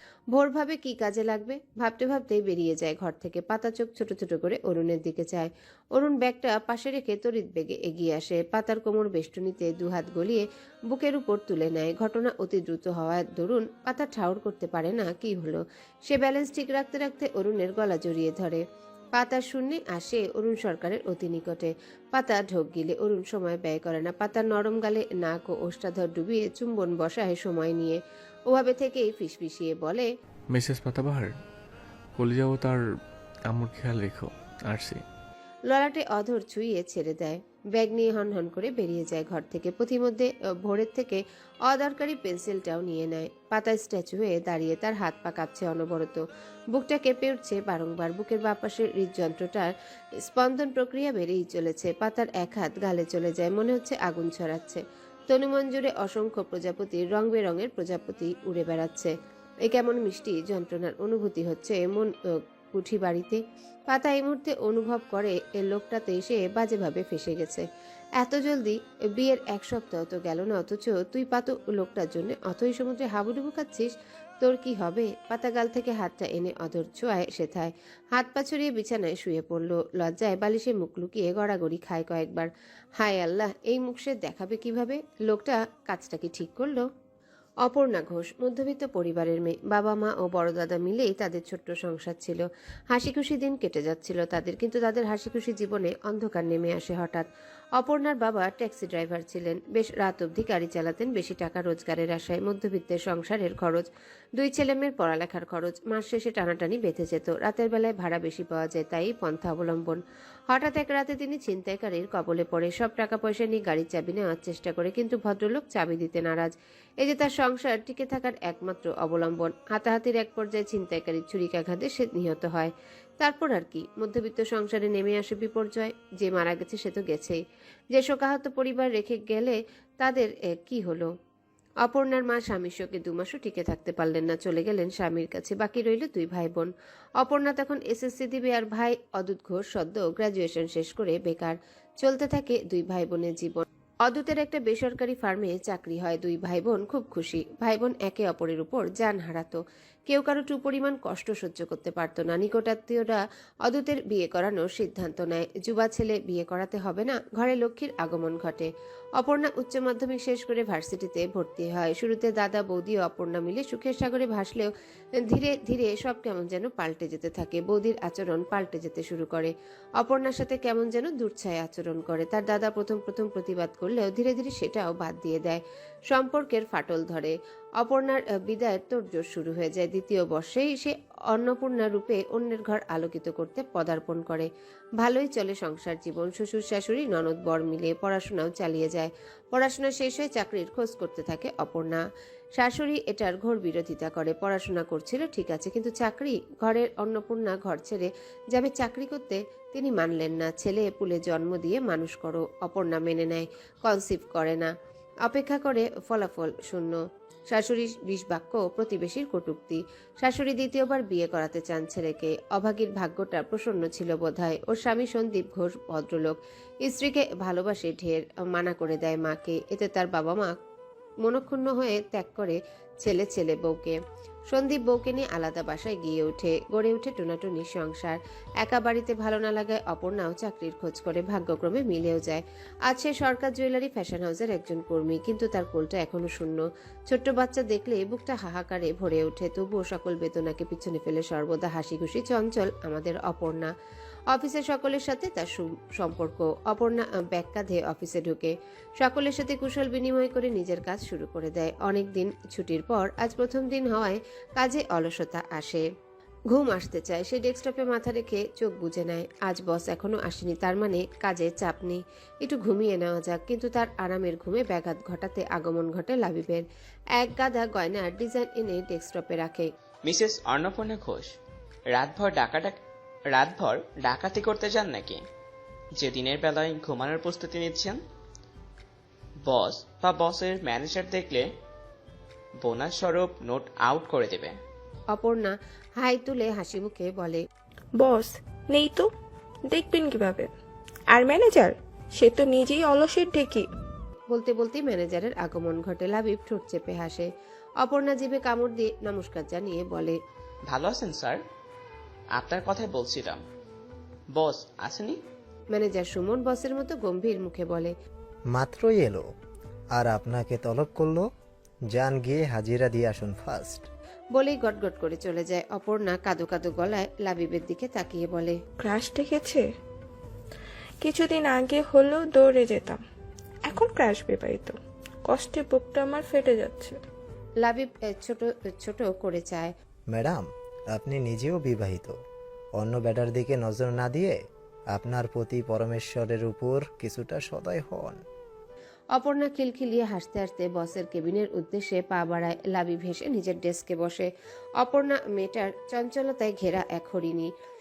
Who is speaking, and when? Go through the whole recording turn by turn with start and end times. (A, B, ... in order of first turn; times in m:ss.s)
0:00.3-0:18.6 A
0:19.1-0:30.1 A
0:30.5-0:31.3 B
0:32.2-0:32.8 B
0:33.5-0:35.0 B
0:35.7-0:49.7 A
0:50.2-0:59.1 A
0:59.6-1:02.1 A
1:02.7-1:07.6 A
1:08.2-1:26.8 A
1:27.6-2:07.4 A
2:07.9-2:11.1 A
2:11.8-3:12.0 A
3:12.6-3:24.7 A
3:25.2-3:27.0 A
3:27.5-3:40.5 A
3:41.2-3:44.0 A
3:44.5-4:03.7 A
4:04.3-4:15.8 A
4:16.5-4:29.7 A
4:30.0-4:31.4 C
4:31.9-4:35.2 C
4:36.0-4:38.0 C
4:39.4-4:41.5 C
4:42.6-4:44.6 C
4:45.1-4:47.4 A
4:48.0-4:49.1 D
4:49.7-4:50.5 D
4:51.1-4:53.6 D
4:54.3-4:57.3 A
4:57.8-5:00.2 A
5:00.7-5:01.4 C
5:02.3-5:03.4 C
5:04.3-5:05.2 C
5:05.7-5:07.9 A
5:08.5-5:09.2 E
5:09.9-5:11.3 E
5:11.9-5:13.9 E
5:14.3-5:18.6 A
5:18.8-5:19.6 D
5:21.0-5:23.0 D
5:23.6-5:24.7 D
5:25.3-5:27.0 D
5:27.6-5:29.7 A
5:30.1-5:32.2 E
5:32.8-5:34.4 E
5:34.9-5:38.2 E
5:39.1-5:44.3 A
5:44.8-5:47.5 A